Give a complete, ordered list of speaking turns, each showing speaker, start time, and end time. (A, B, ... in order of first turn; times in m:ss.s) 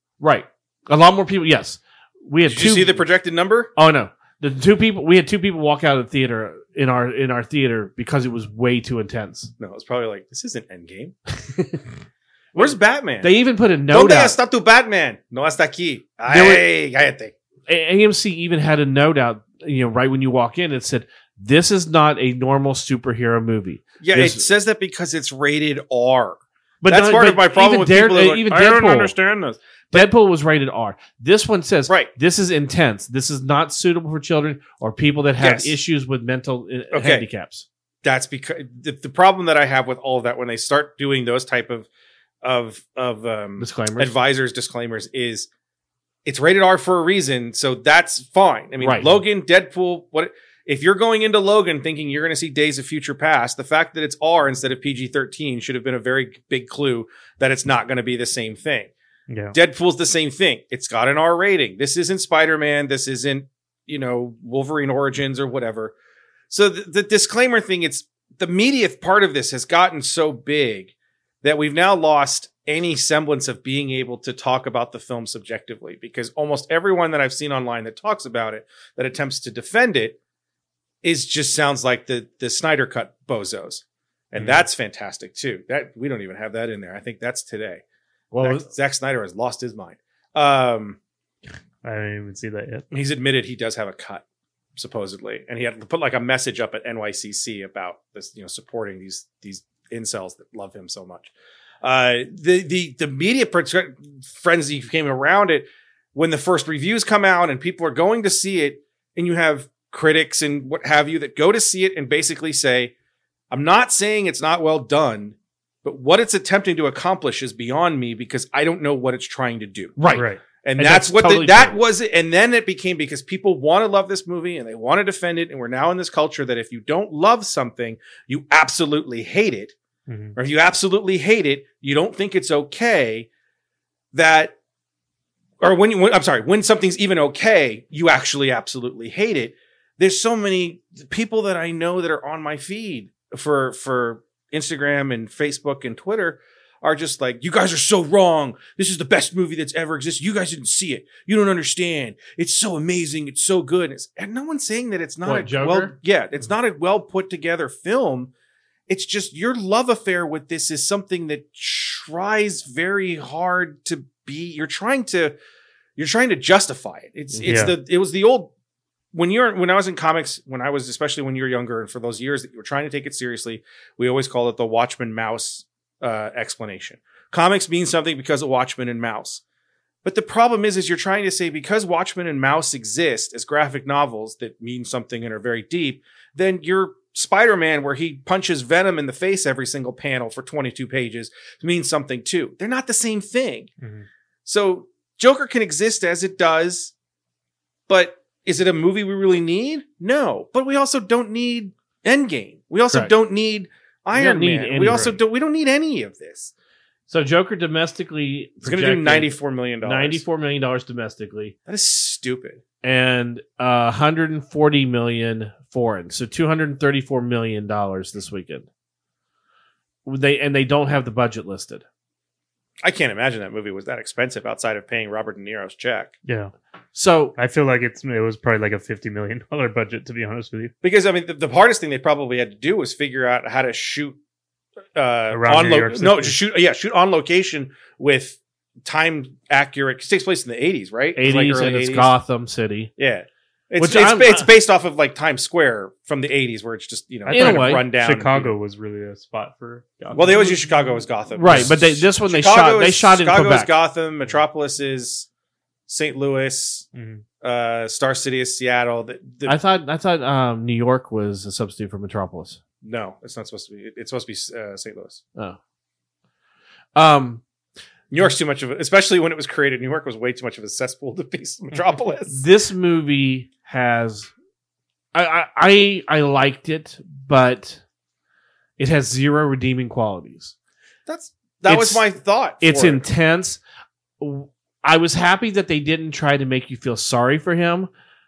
0:00.2-0:03.1 A
0:02.5-0:03.7 B
0:03.8-0:09.5 A
0:09.6-0:11.2 B
0:11.5-0:11.8 A
0:12.5-0:13.3 B
0:12.6-0:14.4 A
0:13.9-0:17.3 B
0:16.3-0:16.7 A
0:17.7-0:24.5 A
0:24.0-0:30.1 B
0:26.8-0:29.2 A
0:29.9-0:37.7 A
0:35.4-0:35.8 B
0:36.9-0:37.3 B
0:38.0-0:41.9 B
0:42.4-0:45.5 B
0:43.6-0:44.1 A
0:46.2-0:58.9 B
0:48.8-0:49.2 A
0:59.3-0:59.6 C
0:59.5-1:06.0 B
1:06.5-1:20.2 B
1:21.0-1:27.8 B
1:24.4-1:24.6 C
1:28.3-1:28.7 A
1:28.4-1:31.0 B
1:31.8-1:32.9 C
1:32.9-1:34.2 B
1:34.8-1:52.9 B
1:53.5-2:09.8 B
2:00.0-2:01.8 A
2:00.1-2:00.4 C
2:10.1-2:10.4 C
2:10.4-2:13.3 B
2:14.1-2:14.6 B
2:15.6-2:38.3 B
2:35.2-2:36.0 A
2:38.9-2:45.4 B
2:46.0-2:48.5 B
2:47.3-2:47.6 A
2:47.5-2:47.7 C
2:49.1-2:59.4 B
3:00.0-3:13.7 B
3:13.8-3:14.1 C
3:14.5-3:16.9 B
3:17.9-3:26.5 B
3:24.1-3:25.2 A
3:27.1-3:31.6 A
3:28.6-3:30.2 B
3:31.7-3:32.6 B
3:32.8-3:38.7 A
3:40.1-3:41.8 A
3:42.8-3:46.2 B
3:46.3-3:46.5 C
3:47.0-3:47.3 A
3:47.4-3:50.7 C
3:50.8-3:54.2 B
3:55.0-4:02.1 B
3:55.3-3:56.4 C
4:01.2-4:02.9 A
4:03.0-4:08.5 B
4:03.8-4:04.5 A
4:07.3-4:10.9 C
4:07.3-4:07.8 A
4:10.1-4:15.3 B
4:11.4-4:13.7 A
4:15.9-4:16.9 B
4:16.9-4:17.2 C
4:17.4-4:19.6 B
4:19.5-4:22.6 A
4:22.8-4:25.2 B
4:27.0-4:27.4 A
4:28.1-4:32.4 B
4:32.3-4:34.3 A
4:35.1-4:37.8 A
4:38.8-4:40.5 A
4:41.1-4:43.0 B
4:41.7-4:42.1 A
4:42.6-4:43.6 A
4:44.2-4:47.9 A